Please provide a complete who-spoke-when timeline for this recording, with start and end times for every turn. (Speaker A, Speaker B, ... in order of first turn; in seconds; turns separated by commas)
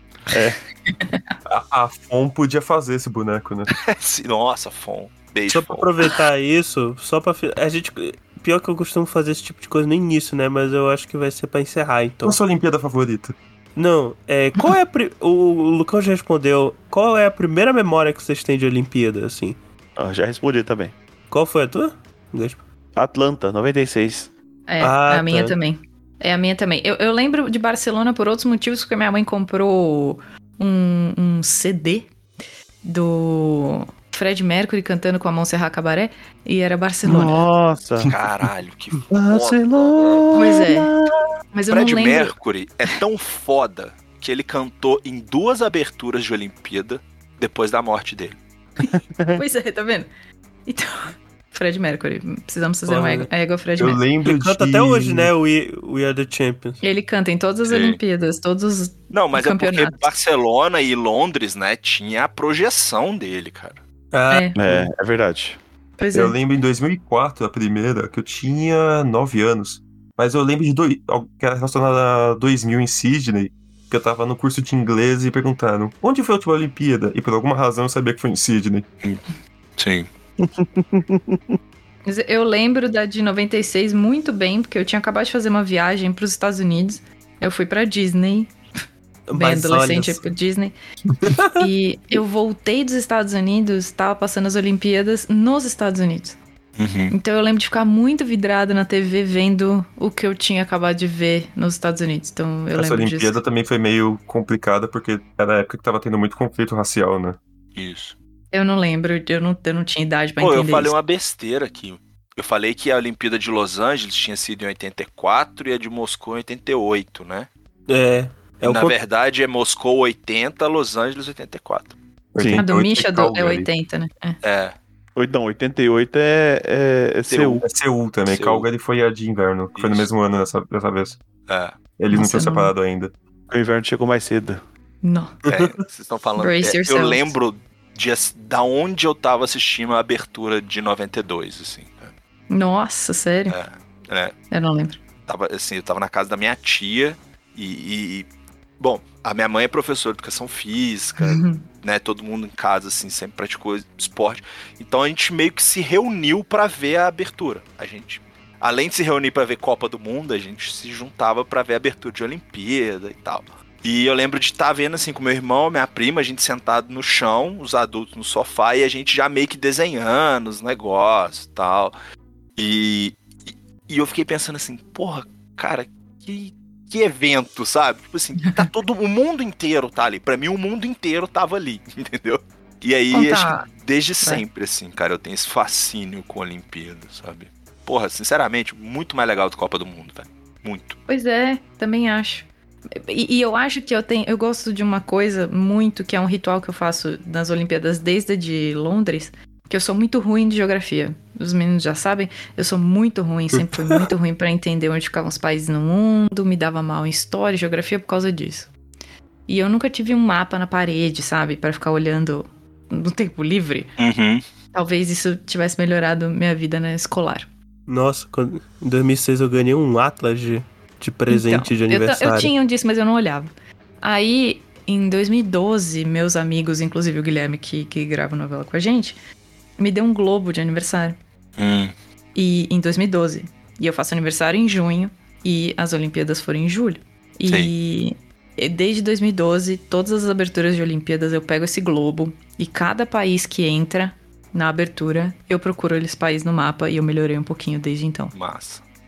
Speaker A: 0.3-0.6, Speaker B: 0.9-1.2, Speaker C: 1.4-3.7, Speaker D: 3.9-5.9, Speaker E: 5.5-12.4, Speaker C: 12.2-13.4, Speaker E: 13.8-19.6, Speaker A: 20.0-20.9, Speaker E: 21.3-22.6, Speaker A: 22.9-24.3, Speaker B: 24.7-32.1, Speaker E: 24.8-25.6, Speaker B: 32.8-37.4, Speaker A: 37.0-38.1, Speaker D: 38.0-40.6, Speaker A: 39.1-41.2, Speaker B: 40.4-40.9, Speaker B: 41.5-42.4, Speaker D: 41.7-48.4, Speaker B: 48.9-50.1, Speaker A: 48.9-49.4, Speaker B: 50.6-54.0, Speaker E: 52.9-53.3, Speaker C: 53.8-55.3, Speaker E: 54.2-56.8, Speaker B: 56.8-60.1, Speaker D: 57.7-58.0, Speaker D: 59.1-63.8, Speaker E: 64.1-64.5, Speaker B: 64.3-64.6, Speaker A: 64.6-65.6, Speaker B: 66.0-66.4, Speaker C: 66.1-78.9, Speaker D: 79.8-80.1, Speaker A: 80.4-81.6, Speaker B: 82.1-88.5, Speaker E: 89.3-90.2, Speaker B: 89.3-90.8, Speaker E: 91.2-91.7, Speaker B: 91.6-96.4, Speaker D: 96.8-97.1, Speaker B: 97.1-103.4, Speaker C: 102.7-107.4, Speaker D: 107.7-108.2, Speaker B: 108.5-111.0, Speaker D: 110.4-117.5, Speaker E: 117.9-119.0, Speaker D: 118.7-122.0, Speaker C: 122.3-123.7, Speaker B: 122.6-124.4, Speaker D: 124.4-124.7, Speaker A: 125.2-127.6, Speaker D: 127.3-127.6, Speaker C: 127.6-131.2, Speaker D: 128.3-128.7, Speaker D: 129.7-130.1, Speaker D: 131.5-131.8, Speaker C: 132.0-133.1, Speaker B: 132.1-132.7, Speaker A: 133.5-134.6, Speaker B: 135.0-135.3, Speaker E: 135.4-135.8, Speaker D: 135.5-142.1, Speaker B: 136.4-137.3, Speaker B: 142.5-143.6, Speaker D: 143.5-144.3, Speaker B: 144.5-145.0, Speaker D: 145.3-148.3, Speaker D: 148.8-171.9, Speaker B: 151.2-151.6, Speaker D: 172.6-191.0, Speaker B: 183.1-183.7, Speaker B: 191.1-208.7, Speaker C: 203.5-204.1, Speaker B: 209.5-213.9, Speaker D: 214.0-214.4, Speaker B: 214.7-217.5, Speaker E: 217.9-222.5, Speaker B: 221.3-223.5, Speaker B: 224.0-229.2, Speaker B: 229.8-231.2, Speaker D: 231.6-231.9, Speaker B: 232.3-248.3, Speaker D: 248.3-248.8